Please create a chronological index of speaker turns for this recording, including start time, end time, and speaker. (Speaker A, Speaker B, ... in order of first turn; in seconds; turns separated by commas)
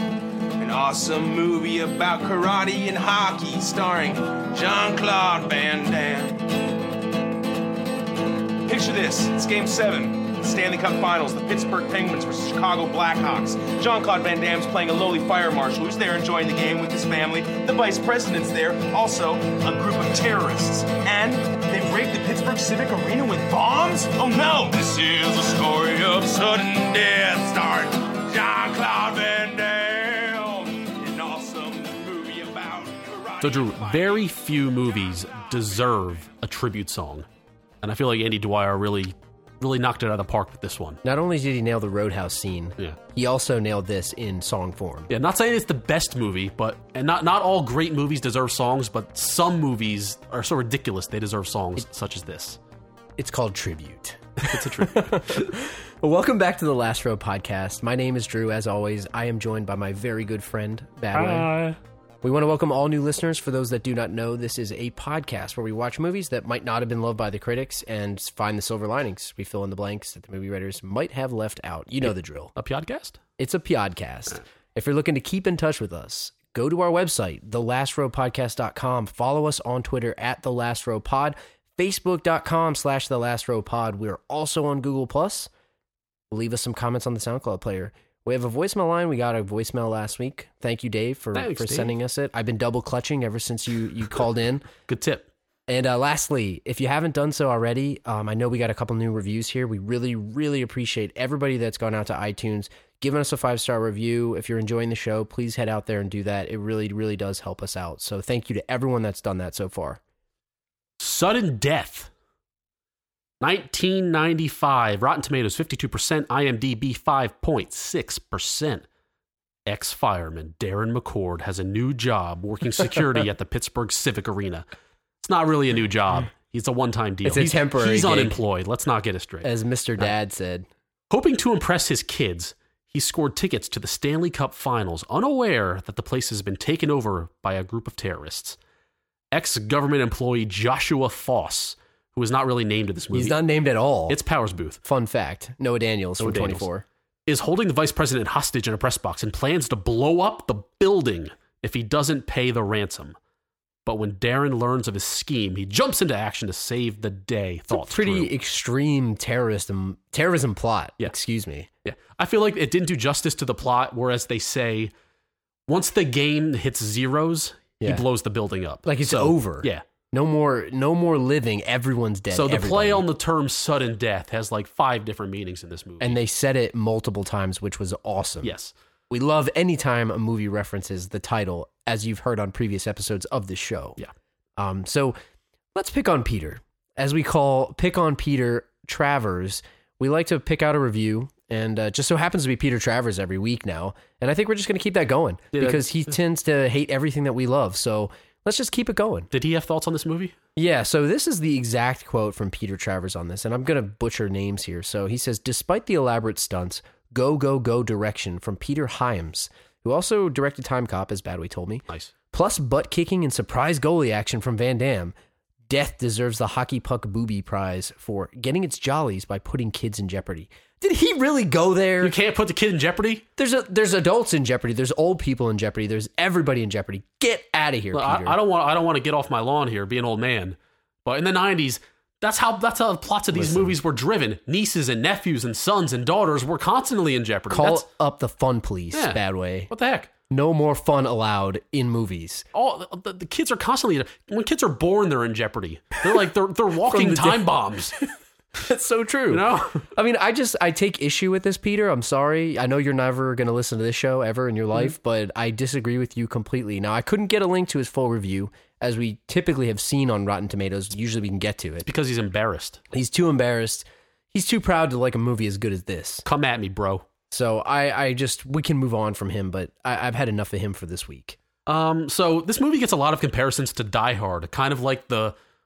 Speaker A: 0.6-6.5, Speaker A: 8.6-34.3, Speaker B: 33.4-37.3, Speaker B: 37.8-41.0, Speaker C: 41.0-45.1, Speaker B: 45.1-52.6, Speaker C: 53.2-61.5, Speaker B: 54.4-55.5, Speaker B: 61.1-61.8, Speaker C: 62.2-72.5, Speaker B: 72.6-73.2, Speaker C: 73.4-85.5, Speaker C: 86.3-94.7, Speaker B: 91.3-92.0, Speaker B: 94.9-95.3, Speaker C: 95.7-110.0, Speaker B: 111.0-112.1, Speaker B: 113.4-118.8, Speaker B: 119.7-124.6, Speaker B: 125.2-129.5, Speaker C: 127.2-128.4, Speaker C: 129.4-130.7, Speaker B: 131.1-138.6, Speaker B: 139.3-143.3, Speaker C: 143.1-144.2, Speaker B: 144.1-144.8, Speaker C: 144.8-146.8, Speaker B: 146.2-146.7, Speaker B: 147.2-153.2, Speaker B: 153.8-158.3, Speaker C: 157.7-161.7, Speaker B: 161.8-164.9, Speaker B: 165.7-169.8, Speaker C: 168.8-173.1, Speaker B: 172.3-176.2, Speaker C: 176.0-178.5, Speaker B: 178.4-178.7, Speaker C: 179.1-184.0, Speaker C: 184.6-185.2, Speaker C: 185.7-199.3, Speaker B: 195.5-195.8, Speaker B: 199.3-200.3, Speaker C: 200.6-215.1, Speaker C: 215.7-222.1, Speaker B: 222.0-223.2, Speaker C: 223.4-228.4, Speaker B: 227.9-237.8, Speaker C: 233.3-233.7, Speaker C: 237.5-239.7, Speaker B: 238.9-240.1, Speaker C: 240.3-242.4, Speaker B: 242.5-247.9, Speaker C: 246.9-261.9, Speaker B: 249.3-249.8, Speaker B: 261.9-262.8, Speaker C: 262.9-266.2, Speaker B: 266.2-267.1, Speaker C: 267.3-271.4, Speaker B: 271.7-275.4